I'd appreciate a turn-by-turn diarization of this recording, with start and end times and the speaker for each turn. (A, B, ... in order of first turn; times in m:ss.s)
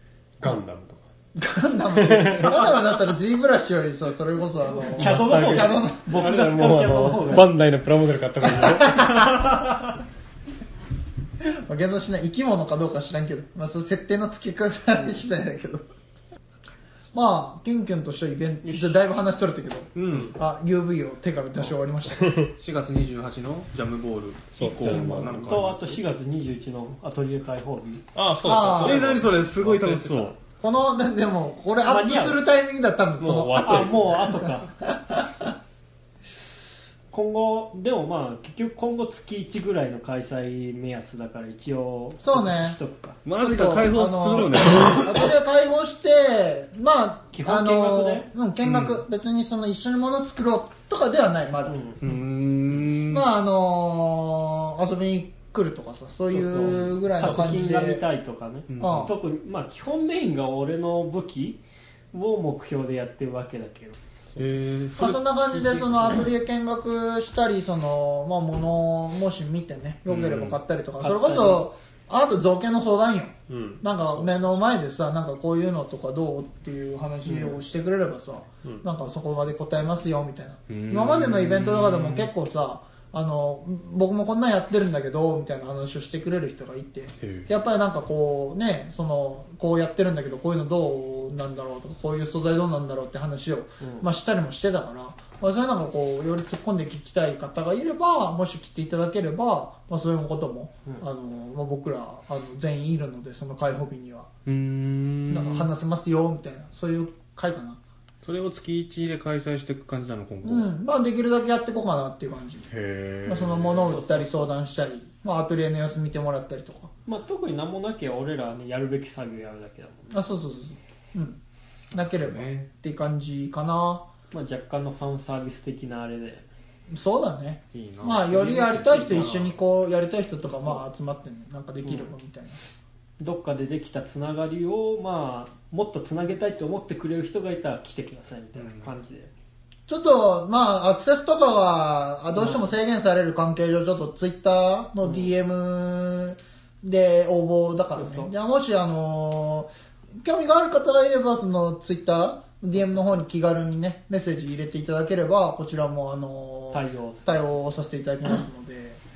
0:00.4-0:01.1 A
0:01.4-0:06.1 B
0:01.9-0:02.8 A
0:04.6-0:07.5 C
0:05.0-0:09.3 A
0:08.4-0:09.6 B
0:11.4-0:15.8 B
0:17.1-0:22.4 B
0:18.6-0:19.0 C
0:19.9-0:20.4 D
0:22.0-0:22.5 A
0:22.6-0:26.0 D
0:24.6-0:25.4 A
0:24.8-0:25.5 B
0:24.9-0:28.0 C
0:28.1-0:30.4 A
0:28.4-0:29.1 B
0:28.8-0:30.4 D
0:30.6-0:35.4 B
0:31.8-0:32.4 C
0:33.2-0:34.2 A
0:33.6-0:34.7 C
0:37.1-0:43.2 C
0:42.2-0:42.8 B
0:43.2-0:45.3 D
0:43.4-0:51.8 B
0:47.3-0:48.3 C
0:48.6-0:49.0 D
0:51.7-0:52.0 C
0:52.0-0:53.3 D
0:53.1-0:58.0 B
0:56.3-1:01.6 C
0:56.5-0:56.8 D
0:58.7-0:59.1 D
0:58.8-0:59.1 B
1:02.1-1:04.0 C
1:04.4-1:06.3 D
1:05.0-1:44.3 B
1:10.1-1:10.6 D
1:11.0-1:11.6 C
1:13.5-1:14.3 A
1:20.7-1:22.3 D
1:27.2-1:27.5 D
1:33.8-1:34.1 C
1:44.4-1:45.7 D
1:45.3-1:47.8 B
1:48.2-1:50.7 D
1:50.4-1:52.7 B
1:52.7-1:54.0 D
1:53.2-1:56.9 B
1:53.8-1:54.5 C
1:57.0-2:00.2 C
2:00.1-2:01.4 B
2:01.9-2:04.1 B
2:01.9-2:02.7 D
2:04.3-2:06.5 C
2:06.9-2:12.6 B
2:07.7-2:09.6 D
2:10.5-2:10.8 C
2:11.8-2:12.1 C
2:13.2-2:19.3 C
2:18.5-2:18.9 D
2:19.9-2:29.7 B
2:22.3-2:22.7 C
2:25.0-2:25.3 C
2:27.9-2:28.3 C
2:30.2-2:39.0 B
2:32.7-2:33.2 C
2:36.7-2:37.3 C